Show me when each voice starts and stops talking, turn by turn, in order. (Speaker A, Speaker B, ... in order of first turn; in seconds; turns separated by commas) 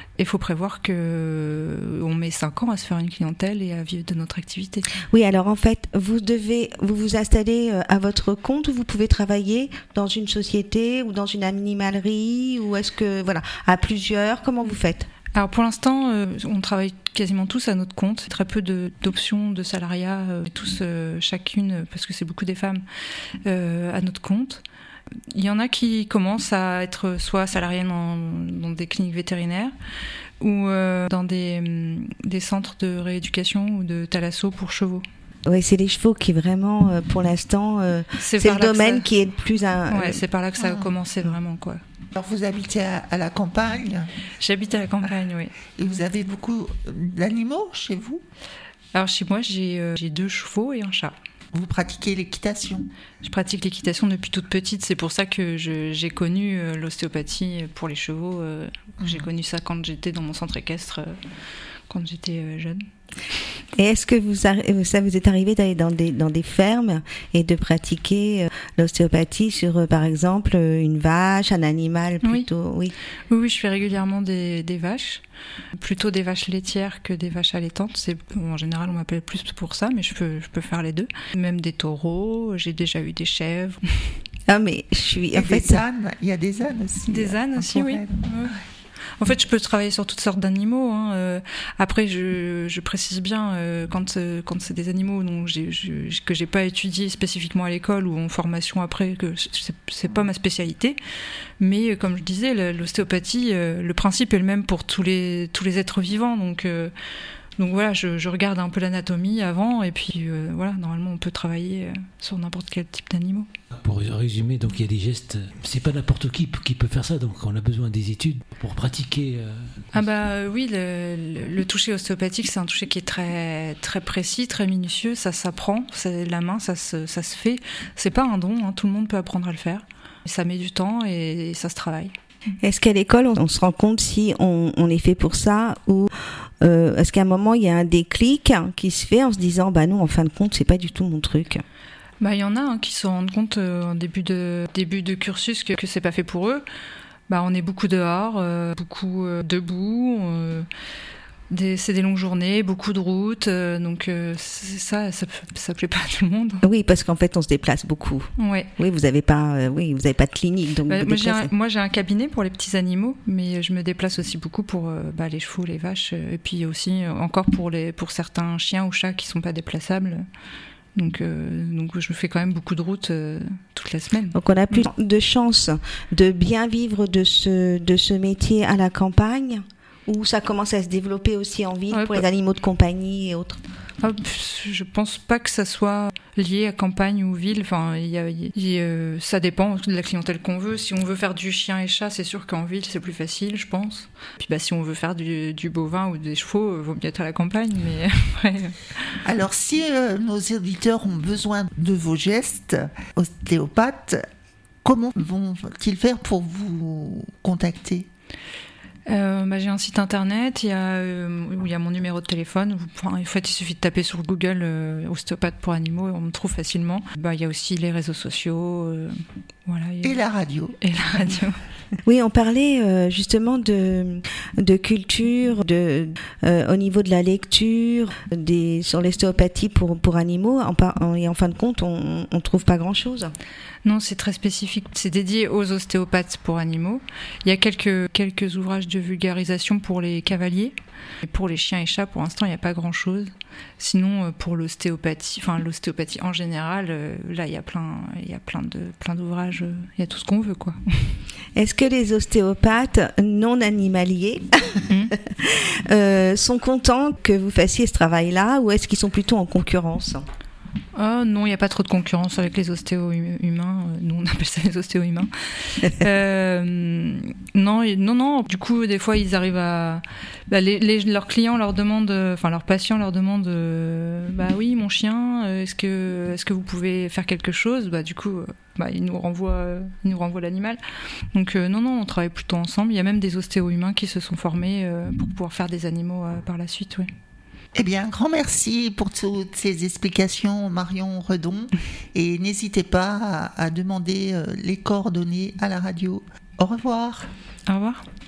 Speaker A: 0.2-4.9, Speaker B: 5.1-15.1, Speaker A: 15.3-22.8, Speaker A: 23.4-24.6, Speaker A: 25.3-29.7, Speaker A: 30.4-35.0, Speaker B: 35.5-40.2, Speaker A: 38.2-39.1, Speaker A: 39.9-41.8, Speaker C: 40.6-40.9, Speaker C: 42.1-44.1, Speaker A: 44.4-45.6, Speaker C: 45.8-48.2, Speaker A: 48.9-51.1, Speaker C: 51.5-52.9, Speaker A: 53.2-61.1, Speaker A: 61.9-62.8, Speaker B: 63.8-72.9, Speaker A: 73.3-75.2, Speaker A: 75.8-84.1, Speaker B: 84.5-85.8, Speaker C: 85.3-88.2, Speaker A: 87.1-88.6, Speaker A: 89.2-101.0, Speaker A: 101.6-106.9, Speaker A: 107.6-113.5, Speaker D: 113.8-120.0, Speaker A: 119.9-132.1, Speaker B: 132.6-141.6, Speaker A: 142.2-146.6, Speaker A: 147.3-150.7, Speaker A: 151.5-156.6, Speaker B: 156.6-161.5, Speaker A: 158.4-158.7, Speaker A: 160.9-170.2, Speaker A: 170.9-174.9, Speaker B: 174.3-183.6, Speaker A: 181.9-182.2, Speaker A: 184.0-198.8, Speaker C: 199.2-204.2, Speaker C: 204.8-208.1, Speaker A: 209.1-219.1, Speaker A: 219.7-220.2, Speaker C: 220.0-220.8, Speaker A: 220.8-221.6, Speaker B: 222.0-233.3, Speaker A: 233.8-251.2, Speaker B: 251.5-260.2, Speaker A: 260.9-280.8, Speaker A: 281.3-287.1, Speaker C: 287.7-297.3, Speaker A: 297.7-298.0